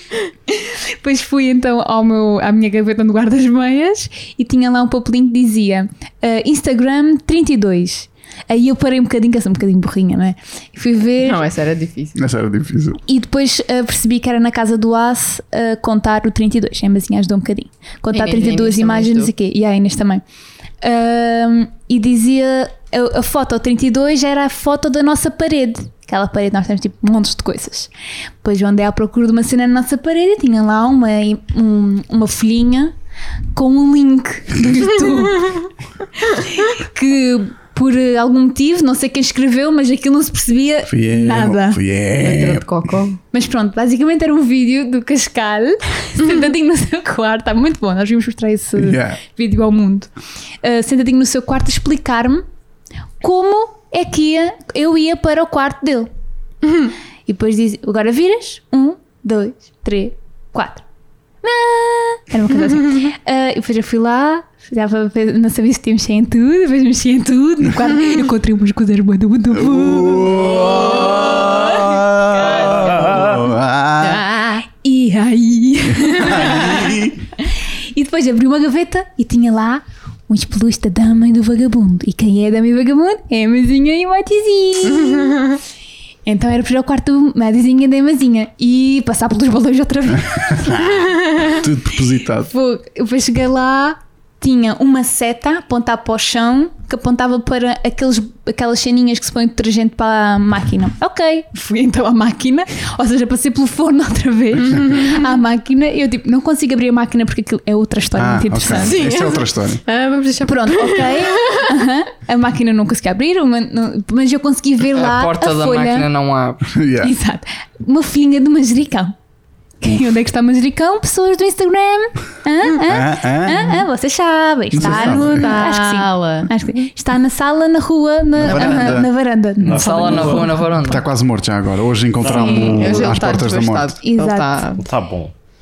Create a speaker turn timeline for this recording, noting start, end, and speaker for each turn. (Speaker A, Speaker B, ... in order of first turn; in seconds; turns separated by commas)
Speaker A: 0.5-11.4, Speaker B: 11.2-12.2, Speaker C: 12.2-13.0, Speaker A: 13.1-20.2, Speaker B: 18.1-19.3, Speaker A: 20.8-27.9, Speaker A: 28.4-32.9, Speaker A: 33.5-35.7, Speaker C: 34.6-34.8, Speaker A: 36.3-41.8, Speaker C: 40.9-42.9, Speaker B: 42.2-43.2, Speaker A: 43.3-50.1, Speaker C: 48.8-49.2, Speaker A: 50.6-52.5, Speaker A: 53.2-56.1, Speaker A: 57.3-60.8, Speaker A: 61.4-72.0, Speaker C: 69.5-74.2, Speaker D: 72.7-73.3, Speaker B: 74.0-74.6, Speaker A: 74.8-85.5, Speaker C: 75.8-77.3, Speaker B: 84.9-85.6, Speaker A: 86.2-90.8, Speaker C: 90.3-92.5, Speaker A: 92.5-109.0, Speaker B: 104.6-105.2, Speaker C: 108.2-109.8, Speaker B: 108.7-111.7, Speaker A: 110.4-116.1, Speaker E: 115.0-116.8, Speaker C: 116.7-117.1, Speaker A: 117.0-119.2, Speaker A: 119.8-130.6, Speaker C: 122.8-123.8, Speaker C: 124.7-125.5, Speaker B: 124.8-126.5, Speaker C: 128.4-129.1, Speaker B: 128.4-128.9, Speaker D: 129.6-130.5, Speaker E: 129.7-131.1, Speaker C: 130.8-134.0, Speaker D: 132.2-133.2, Speaker A: 132.3-133.1, Speaker B: 132.7-134.8, Speaker A: 134.0-134.7, Speaker D: 134.8-135.3